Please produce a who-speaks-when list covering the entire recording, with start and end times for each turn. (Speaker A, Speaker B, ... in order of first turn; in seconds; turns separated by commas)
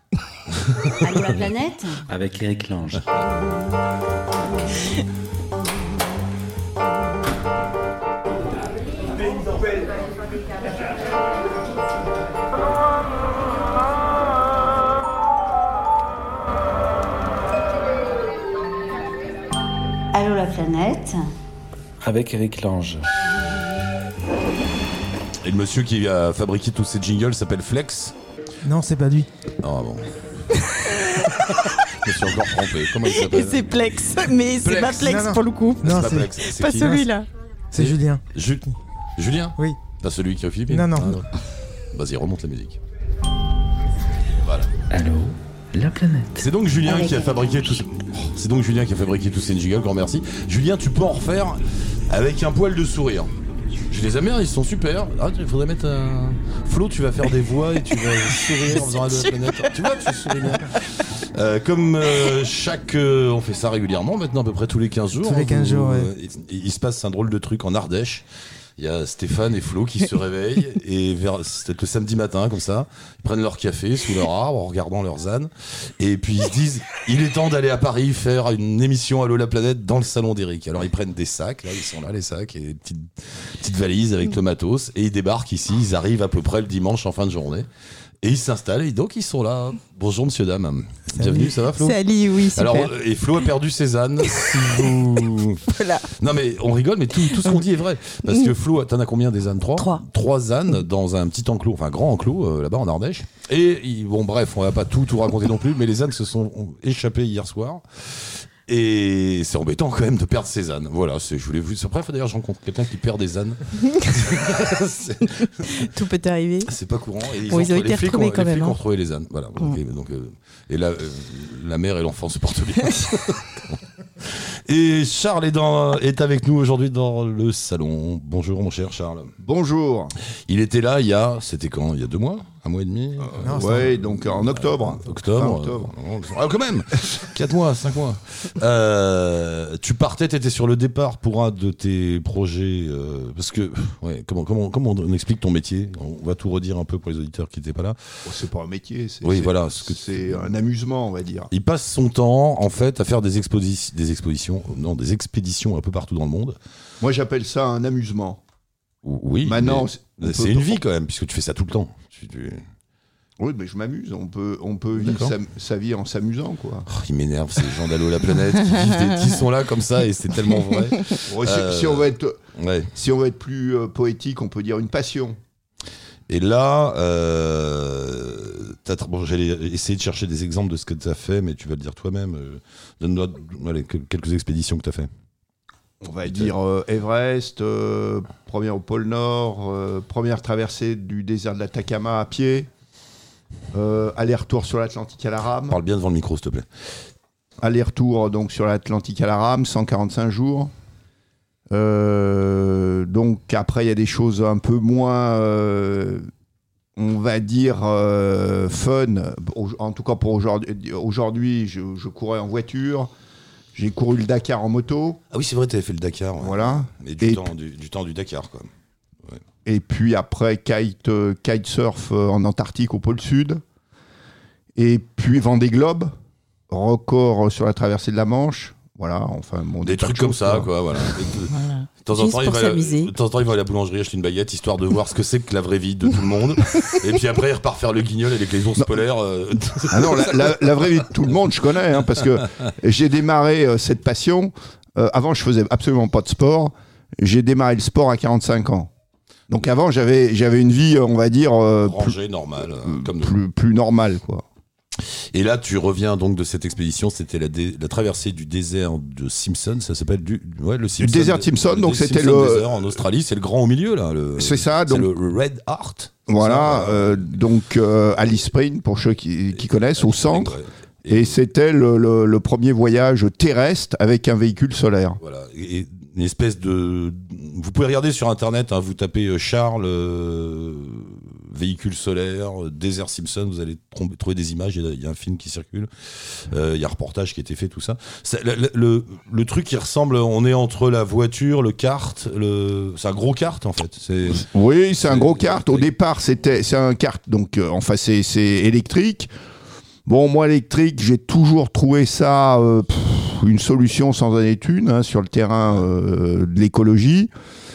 Speaker A: 1.0-2.0, Speaker B: 2.1-3.2, Speaker A: 20.1-21.3, Speaker B: 22.0-23.1, Speaker C: 25.4-28.2, Speaker D: 28.6-29.3, Speaker C: 29.6-30.1, Speaker E: 30.9-31.4, Speaker C: 32.0-33.7, Speaker E: 33.0-37.3, Speaker C: 34.6-35.2, Speaker D: 35.0-37.1, Speaker C: 35.8-37.0, Speaker D: 37.7-38.8, Speaker C: 37.7-41.3, Speaker D: 40.7-41.3, Speaker C: 41.9-42.8, Speaker C: 44.4-44.7, Speaker B: 44.9-46.4, Speaker C: 46.4-53.3, Speaker A: 46.8-47.8, Speaker C: 53.9-68.2, Speaker E: 58.8-59.2, Speaker D: 65.2-66.1, Speaker C: 68.8-87.7, Speaker C: 88.2-92.0, Speaker D: 91.2-91.5, Speaker E: 91.7-93.0, Speaker C: 92.5-115.7, Speaker E: 94.3-94.9, Speaker E: 95.7-96.1, Speaker E: 97.3-97.6, Speaker E: 98.2-98.5, Speaker E: 99.8-100.0, Speaker E: 115.8-116.7, Speaker C: 116.7-129.3, Speaker E: 117.5-118.8, Speaker F: 129.4-130.1, Speaker C: 130.5-148.0, Speaker F: 133.2-135.9, Speaker D: 133.4-133.9, Speaker F: 148.2-151.5, Speaker C: 149.2-150.5, Speaker C: 151.5-156.6, Speaker F: 157.0-158.4, Speaker C: 159.0-162.7, Speaker F: 159.4-160.8, Speaker F: 163.4-166.9, Speaker C: 165.0-165.3, Speaker C: 166.9-172.9, Speaker F: 171.3-172.4, Speaker F: 172.9-175.4, Speaker C: 176.3-185.1, Speaker F: 186.0-192.7, Speaker C: 186.3-186.5, Speaker F: 193.7-195.8, Speaker C: 195.7-196.7, Speaker F: 197.6-200.7, Speaker F: 201.7-206.3, Speaker F: 207.0-213.1, Speaker F: 213.7-215.2, Speaker C: 215.3-218.7, Speaker F: 216.4-217.5, Speaker F: 219.7-223.6, Speaker F: 224.8-226.2, Speaker F: 226.7-231.1, Speaker C: 229.8-241.0, Speaker E: 231.5-233.1, Speaker F: 239.9-248.9, Speaker F: 249.5-254.5, Speaker C: 251.8-253.4, Speaker C: 255.0-267.3, Speaker F: 261.0-263.0, Speaker F: 264.4-265.1, Speaker F: 266.3-270.6, Speaker C: 269.6-271.4, Speaker F: 271.1-275.2, Speaker C: 275.2-294.5, Speaker F: 294.3-299.3, Speaker C: 295.1-295.9, Speaker F: 300.1-307.3